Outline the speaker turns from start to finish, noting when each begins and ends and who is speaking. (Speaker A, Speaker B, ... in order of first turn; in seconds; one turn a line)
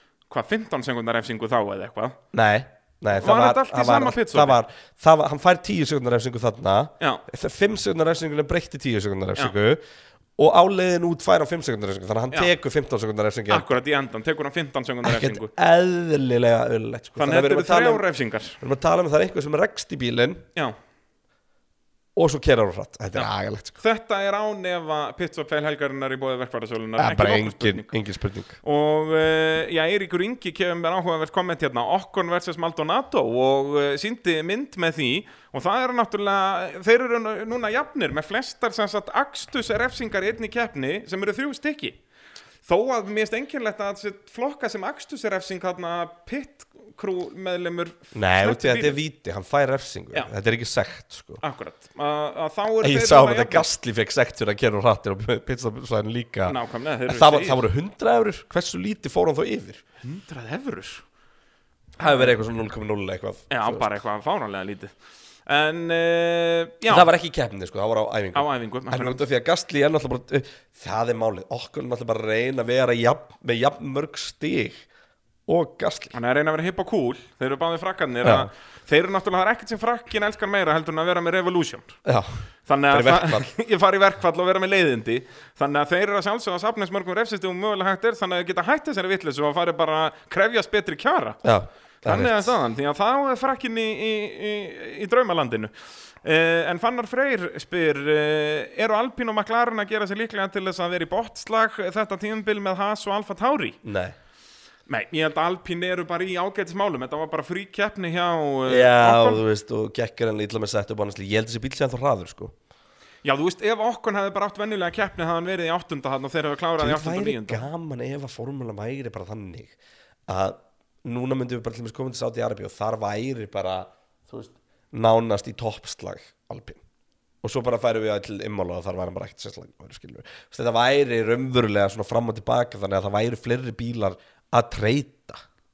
Speaker A: 0.3-2.2
Speaker B: 2.3-9.8
Speaker A: 3.1-4.6
Speaker B: 10.4-13.7
Speaker A: 13.5-15.5
Speaker B: 15.0-18.1
Speaker A: 17.2-18.6
Speaker B: 18.6-20.4
Speaker B: 22.1-23.8
Speaker A: 23.1-27.9
Speaker B: 27.0-28.6
Speaker A: 28.6-42.0
Speaker A: 42.6-49.0
Speaker B: 48.1-51.4
Speaker A: 51.4-53.7
Speaker B: 52.8-59.8
Speaker A: 56.5-57.6
Speaker A: 60.0-61.0
Speaker B: 62.0-63.9
Speaker A: 62.0-62.3
Speaker A: 63.5-64.9
Speaker A: 65.5-67.1
Speaker B: 66.8-74.8
Speaker A: 68.3-69.2
Speaker B: 75.5-76.1
Speaker A: 76.1-82.0
Speaker B: 78.2-78.5
Speaker B: 82.0-82.3
Speaker A: 82.7-91.4
Speaker B: 82.9-83.5
Speaker B: 91.4-92.5
Speaker A: 92.0-103.8
Speaker B: 103.8-104.1
Speaker A: 104.9-109.4
Speaker B: 108.7-112.5
Speaker A: 113.2-117.6
Speaker B: 116.8-119.7
Speaker B: 120.3-126.8
Speaker B: 127.4-135.4